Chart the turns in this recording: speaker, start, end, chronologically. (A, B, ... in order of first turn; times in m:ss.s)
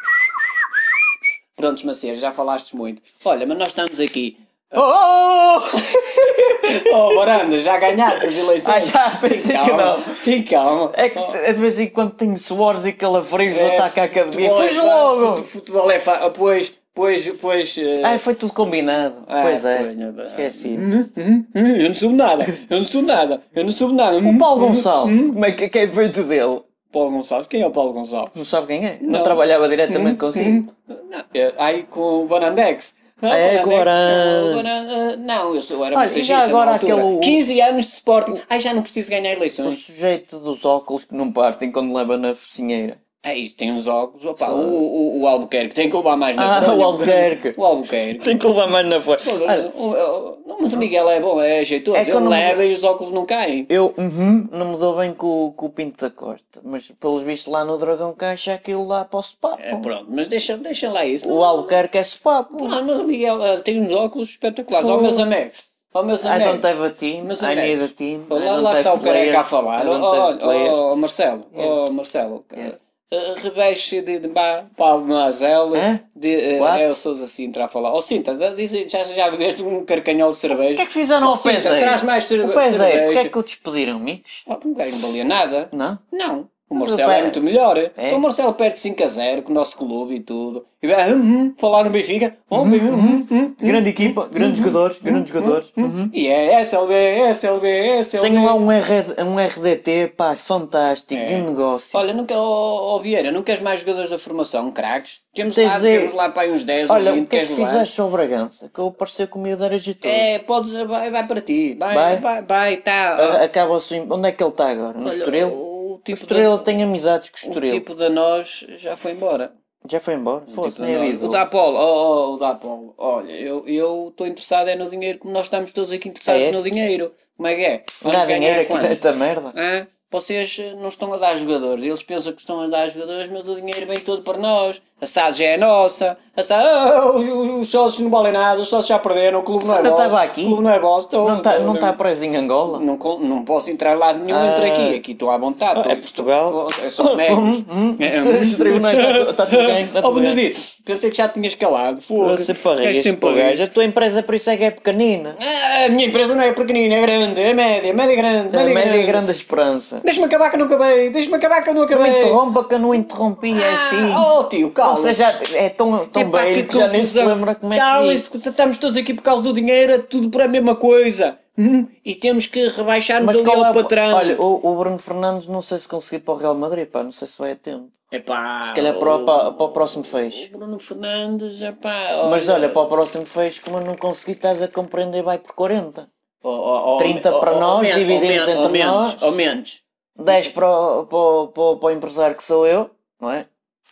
0:01.6-0:04.8 A
0:04.7-0:07.4 B
0:06.2-0:11.4 A
0:08.1-0:10.2 B
0:10.9-0:15.5 B
0:13.5-0:18.2 A
0:18.0-0:20.9 B
0:19.3-0:25.4 A
0:24.2-0:26.6 B
0:26.9-0:28.3 A
0:28.3-0:30.6 B
0:29.0-0:39.8 A
0:33.3-0:34.7 B
0:35.9-0:37.4 B
0:39.6-0:43.0 B
0:43.2-0:48.4 A
0:44.4-0:44.9 B
0:46.4-0:47.6 B
0:48.2-0:49.7 B
0:49.2-0:53.7 A
0:51.9-0:52.6 B
0:53.7-0:59.9 B
0:59.6-1:01.8 A
1:01.2-1:02.8 B
1:02.5-1:06.7 A
1:04.7-1:05.3 B
1:06.2-1:10.8 B
1:07.2-1:23.3 A
1:11.5-1:11.9 B
1:15.7-1:16.0 B
1:16.6-1:17.0 B
1:20.5-1:24.4 B
1:24.5-1:38.6 A
1:25.7-1:26.0 B
1:26.8-1:27.4 B
1:28.0-1:28.2 B
1:32.5-1:36.1 B
1:38.2-1:42.0 B
1:41.1-1:47.9 A
1:45.5-1:46.2 B
1:46.9-1:50.3 B
1:50.0-1:53.4 A
1:51.9-1:52.3 B
1:53.2-1:55.6 B
1:55.0-1:56.7 A
1:56.1-1:57.8 B
1:57.4-1:59.5 A
1:59.8-2:01.4 B
2:00.5-2:09.0 A
2:06.3-2:06.6 B
2:08.0-2:09.6 B
2:09.5-2:22.0 A
2:19.6-2:20.6 B
2:21.2-2:22.8 B
2:22.7-2:33.6 A
2:24.3-2:25.0 B
2:25.7-2:30.4 B
2:32.2-2:35.4 B
2:35.4-2:39.2 A
2:38.5-2:40.0 B
2:40.0-2:42.4 A
2:41.9-2:44.3 B
2:43.5-2:45.2 A
2:44.8-2:48.3 B
2:46.1-2:54.4 A
2:53.2-2:57.9 B
2:58.1-3:02.9 A
2:58.7-3:00.5 B
3:02.2-3:06.1 B
3:06.4-3:10.5 A
3:07.0-3:09.4 B
3:10.2-3:13.5 B